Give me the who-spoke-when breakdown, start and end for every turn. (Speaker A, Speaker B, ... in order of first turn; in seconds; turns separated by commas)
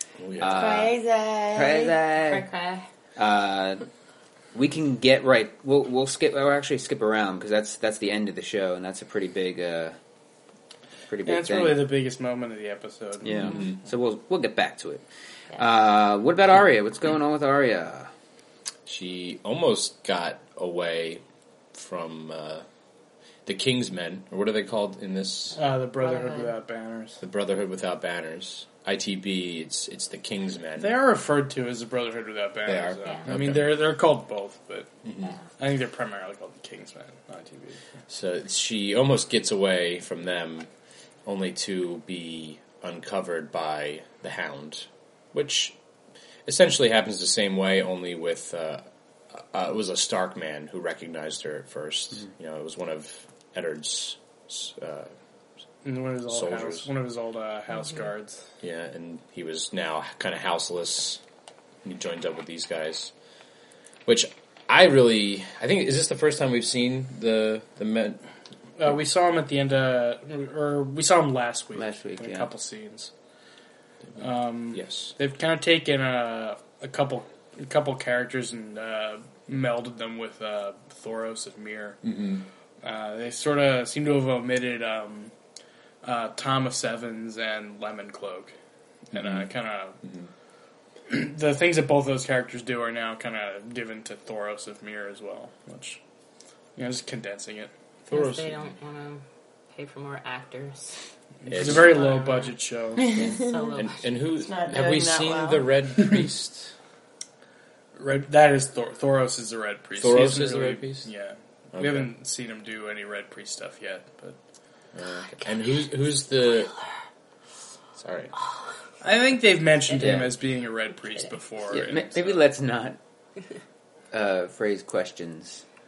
Speaker A: 0.2-0.9, Speaker B: 0.4-0.9, Speaker C: 0.5-2.0, Speaker B: 1.5-2.5, Speaker D: 2.3-2.9, Speaker B: 3.2-3.9, Speaker B: 4.5-10.0, Speaker B: 11.1-11.9, Speaker E: 11.2-13.7, Speaker B: 13.2-18.1, Speaker A: 13.4-13.8, Speaker A: 18.9-21.2, Speaker A: 21.7-22.6, Speaker A: 23.5-25.6, Speaker E: 25.6-27.2, Speaker D: 26.0-26.5, Speaker A: 27.2-30.9, Speaker E: 30.8-34.9, Speaker A: 32.7-33.8, Speaker A: 35.0-35.4, Speaker E: 35.6-37.8, Speaker A: 38.1-40.7, Speaker A: 41.3-45.8, Speaker A: 46.5-55.1, Speaker E: 55.9-58.4, Speaker A: 56.3-56.9, Speaker A: 58.6-61.2, Speaker A: 61.8-63.1, Speaker A: 64.1-68.2, Speaker E: 68.8-73.1, Speaker B: 71.8-72.5, Speaker E: 74.2-82.0, Speaker A: 74.7-75.1, Speaker A: 82.0-82.5, Speaker E: 82.8-85.3, Speaker E: 86.0-88.5, Speaker E: 89.1-90.0, Speaker A: 89.1-89.5, Speaker A: 90.0-90.3, Speaker E: 91.1-96.0, Speaker E: 96.8-98.2, Speaker A: 98.1-98.5, Speaker D: 98.1-101.0, Speaker E: 101.4-103.3, Speaker A: 101.5-102.1, Speaker D: 101.7-102.5, Speaker C: 103.0-103.8, Speaker D: 103.2-104.1, Speaker A: 103.8-106.7, Speaker C: 104.4-105.7, Speaker E: 108.0-114.4, Speaker A: 110.0-111.1, Speaker A: 111.7-112.1, Speaker A: 115.0-116.7, Speaker D: 115.1-115.5, Speaker A: 118.0-118.3, Speaker E: 119.0-122.5, Speaker B: 119.9-120.4, Speaker B: 121.7-123.0, Speaker B: 124.1-125.6